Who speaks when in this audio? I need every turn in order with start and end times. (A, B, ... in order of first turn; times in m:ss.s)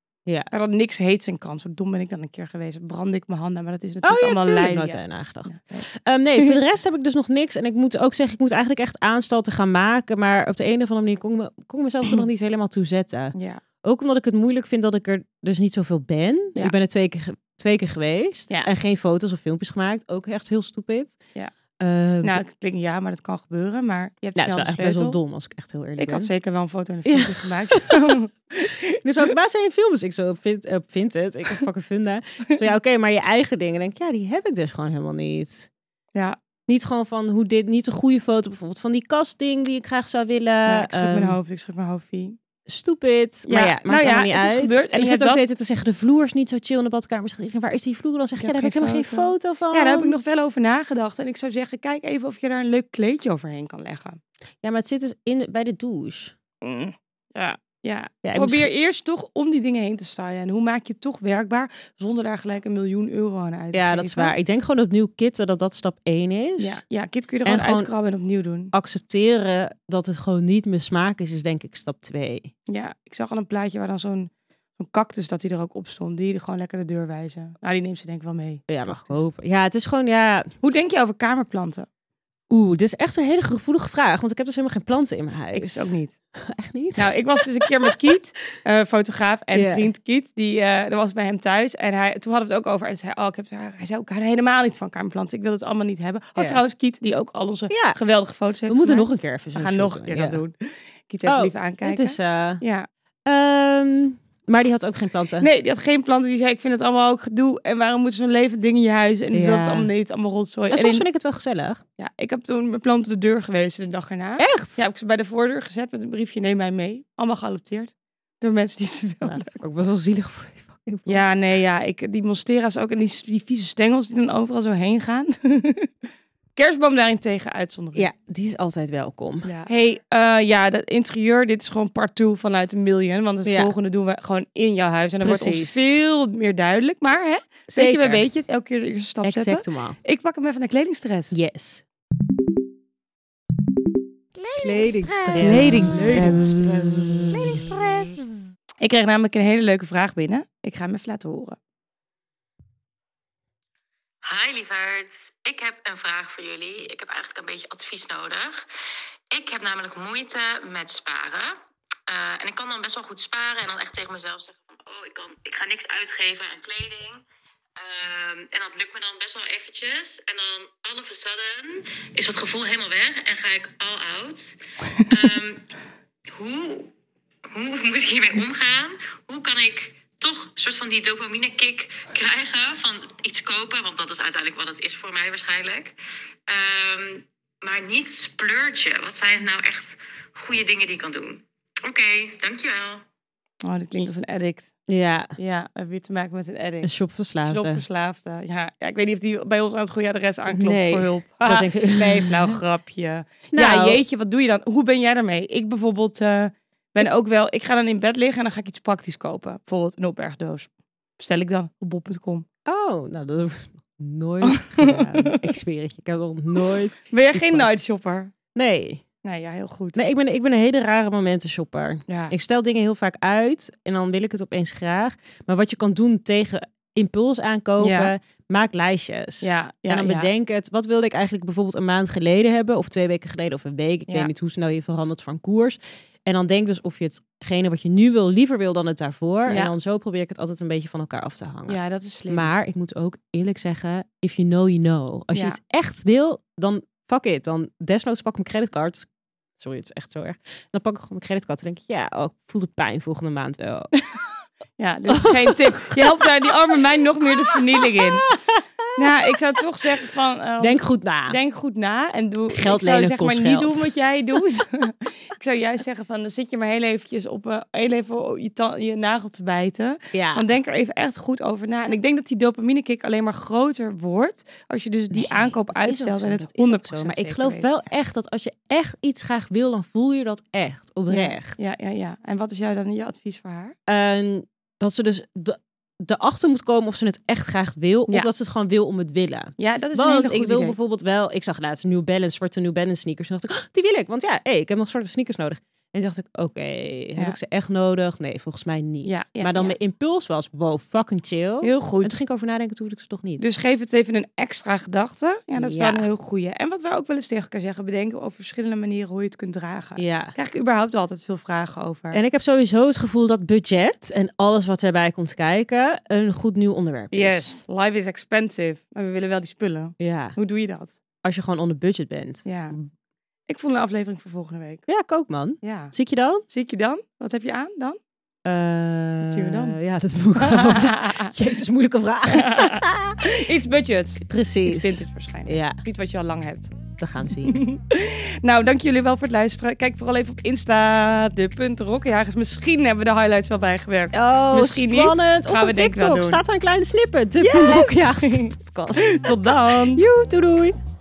0:00.5-0:06.6 A
0:04.0-0:21.2 B
0:13.4-0:13.6 A
0:21.8-0:22.4 B
0:22.2-0:25.2 A
0:24.4-0:26.3 B
0:26.0-0:29.3 A
0:27.0-0:35.7 B
0:36.7-0:41.4 B
0:40.7-0:42.4 A
0:42.7-0:50.2 B
0:43.5-0:45.4 A
0:48.4-0:54.2 A
0:54.6-0:56.4 B
0:56.6-1:04.3 A
0:58.2-0:58.7 B
1:03.7-1:06.8 B
1:06.6-1:08.7 A
1:07.4-1:07.9 B
1:08.7-1:12.5 B
1:12.7-1:19.2 A
1:18.7-1:20.5 B
1:20.6-1:21.9 A
1:22.5-1:28.0 B
1:25.5-1:26.2 A
1:27.0-1:42.9 A
1:29.5-1:29.9 B
1:37.7-1:38.0 B
1:38.7-1:40.4 B
1:41.3-1:42.6 B
1:43.3-1:45.5 B
1:45.4-1:51.0 A
1:49.3-1:49.9 B
1:50.7-1:51.8 B
1:52.0-1:59.6 A
1:54.4-1:54.8 B
1:59.2-2:01.3 B
2:01.1-2:05.9 A
2:06.6-2:08.1 A
2:08.0-2:09.5 B
2:09.4-2:21.4 A
2:13.4-2:13.7 B
2:15.2-2:16.0 B
2:17.7-2:18.2 B
2:19.2-2:20.0 B
2:21.3-2:21.8 B
2:24.5-2:26.2 C
2:24.6-2:28.2 B
2:25.4-2:27.3 A
2:28.8-2:31.6 A
2:34.2-2:38.7 C
2:39.3-2:47.2 C
2:47.8-2:55.7 C
2:56.3-2:56.9 C
2:57.5-3:06.0 C
3:06.5-3:13.0 C
3:13.6-3:14.7 A
3:14.9-3:15.4 B
3:15.4-3:16.9 A
3:16.8-3:17.8 B
3:17.4-3:32.4 A
3:20.5-3:22.6 B
3:23.5-3:24.0 B
3:32.7-3:37.7 B
3:34.4-3:35.4 A
3:37.1-3:38.3 A
3:38.6-3:39.0 B
3:39.2-3:40.0 A
3:40.0-4:09.1 B
3:42.1-3:42.3 A
3:47.8-3:48.1 A
3:49.4-3:50.3 A
4:01.7-4:02.5 A
4:05.3-4:05.6 A
4:09.6-4:13.9 B
4:14.8-4:18.3 A
4:15.1-4:16.5 B
4:17.5-4:18.6 B
4:19.0-4:37.7 A
4:20.6-4:21.4 B
4:22.5-4:23.9 B
4:30.1-4:30.4 B
4:35.1-4:41.7 B
4:41.1-4:43.8 A
4:43.9-5:03.4 B
4:49.6-4:50.8 A
4:59.0-4:59.8 A
5:01.6-5:02.2 A
5:03.4-5:12.2 A
5:05.6-5:06.1 B
5:10.0-5:10.3 B
5:12.1-5:17.6 B
5:17.1-5:21.0 A
5:20.0-5:20.4 B
5:21.2-5:22.8 B
5:22.4-5:22.8 A
5:23.5-5:24.9 A
5:24.9-5:26.4 B
5:25.6-5:25.9 A
5:26.5-5:28.0 A
5:28.4-5:33.3 B
5:29.2-5:29.8 A
5:30.4-5:31.4 A
5:32.3-5:36.8 A
5:34.3-5:35.8 B
5:37.0-5:37.6 B
5:37.4-5:46.4 A
5:44.1-5:50.8 B
5:47.4-5:50.0 A